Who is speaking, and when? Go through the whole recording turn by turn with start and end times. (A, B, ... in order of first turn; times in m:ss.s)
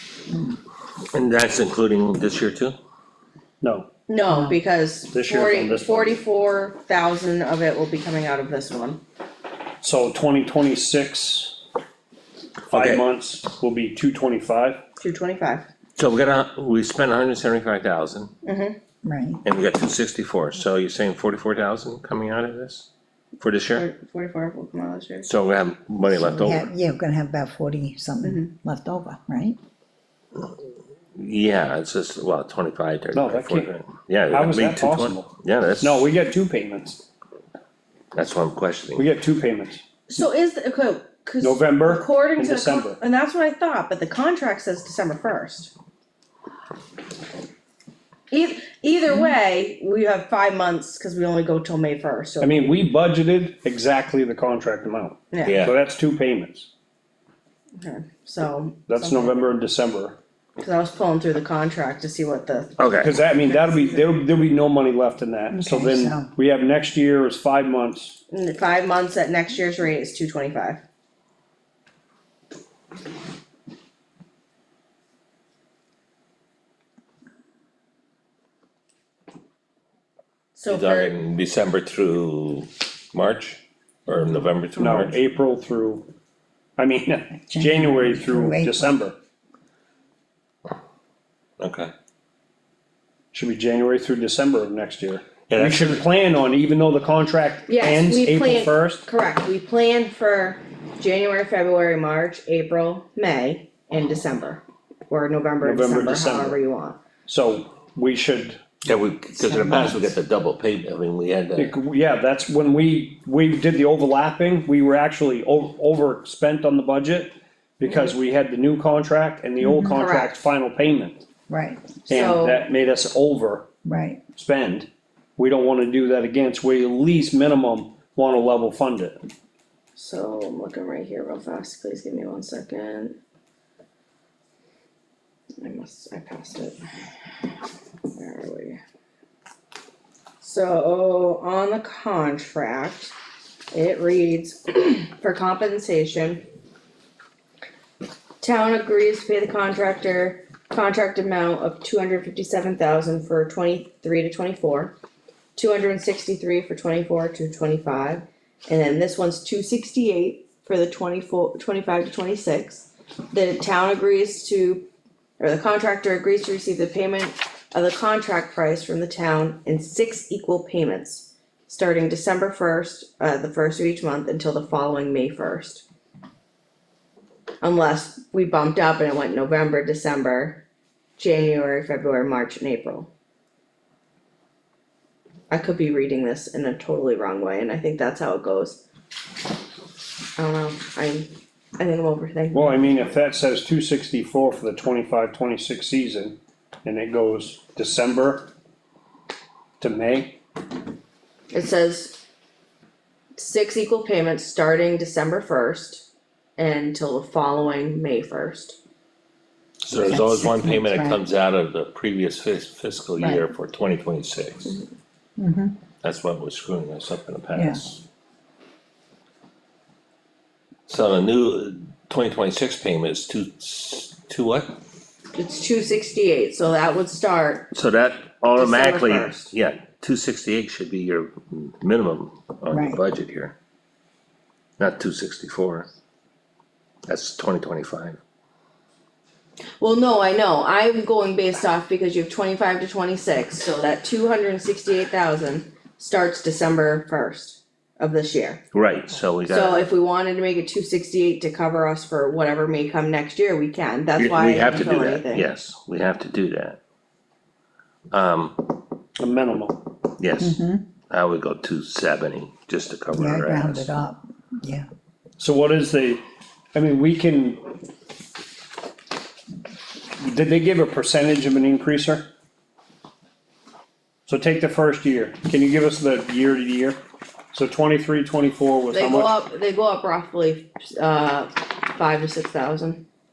0:01.1-0:02.8 A
0:03.6-0:03.9 B
0:04.1-0:09.0 C
0:05.1-0:06.2 B
0:09.8-0:11.6 B
0:12.7-0:14.8 B
0:12.7-0:13.0 A
0:15.0-0:15.7 C
0:16.0-0:18.3 A
0:18.4-0:18.8 C
0:19.0-0:19.4 D
0:19.4-0:22.9 A
0:23.4-0:23.8 A
0:23.8-0:25.3 C
0:25.2-0:26.7 A
0:26.4-0:29.6 D
0:28.2-0:28.5 C
0:31.2-0:36.1 A
0:33.1-0:33.7 B
0:34.3-0:37.0 B
0:38.1-0:39.1 A
0:39.0-0:39.8 B
0:40.1-0:45.7 C
0:41.4-0:43.0 B
0:48.3-0:52.7 C
0:52.4-0:56.7 B
0:55.3-0:55.7 C
0:55.4-0:55.8 A
0:57.8-0:59.6 C
0:58.9-1:00.2 B
1:00.6-1:04.0 C
1:02.8-1:03.1 A
1:03.0-1:08.2 B
1:05.5-1:06.3 D
1:08.3-1:10.8 C
1:20.6-1:21.2 C
1:20.7-1:25.2 A
1:24.8-1:26.1 B
1:26.8-1:29.2 B
1:27.5-1:29.0 D
1:31.6-1:31.9 A
1:33.3-1:39.0 B
1:35.5-1:36.1 A
1:37.7-1:47.0 C
1:45.6-1:46.6 B
1:47.3-1:48.6 B
1:48.8-1:51.7 A
1:49.4-1:50.0 D
1:51.6-2:01.2 B
1:57.9-1:58.1 C
1:59.6-2:00.0 D
1:59.9-2:00.4 C
2:01.5-2:01.9 D
2:02.0-2:03.7 B
2:02.1-2:02.7 C
2:03.8-2:04.2 D
2:04.4-2:09.2 B
2:10.0-2:13.2 C
2:15.6-2:16.8 C
2:18.1-2:18.8 C
2:20.4-2:23.1 C
2:23.7-2:26.5 C
2:28.4-2:35.0 C
2:35.6-2:55.8 C
2:57.6-3:00.6 C
3:01.2-3:03.1 C
3:05.5-3:08.8 C
3:10.4-3:13.2 C
3:12.5-3:18.5 B
3:19.8-3:20.4 B
3:21.5-3:22.2 C
3:23.4-3:28.8 C
3:29.8-3:34.8 A
3:30.0-3:31.2 D
3:35.4-3:35.7 D
3:36.0-3:38.0 A
3:37.6-3:37.8 D
3:40.9-3:44.7 A
3:45.4-3:47.7 C
3:47.7-3:53.6 A
3:48.6-3:49.5 C
3:52.7-3:53.0 D
3:54.8-3:55.9 A
3:57.1-3:58.2 A
3:59.8-4:08.6 C
4:08.7-4:09.9 A
4:09.5-4:15.5 C
4:14.2-4:16.8 A
4:18.1-4:18.8 A
4:19.2-4:19.8 B
4:20.2-4:23.9 A
4:20.4-4:20.8 D
4:23.1-4:24.9 D
4:25.4-4:26.2 B
4:26.7-4:27.6 B
4:30.2-4:32.3 B
4:34.3-4:37.0 B
4:37.5-4:39.3 B
4:38.9-4:43.0 C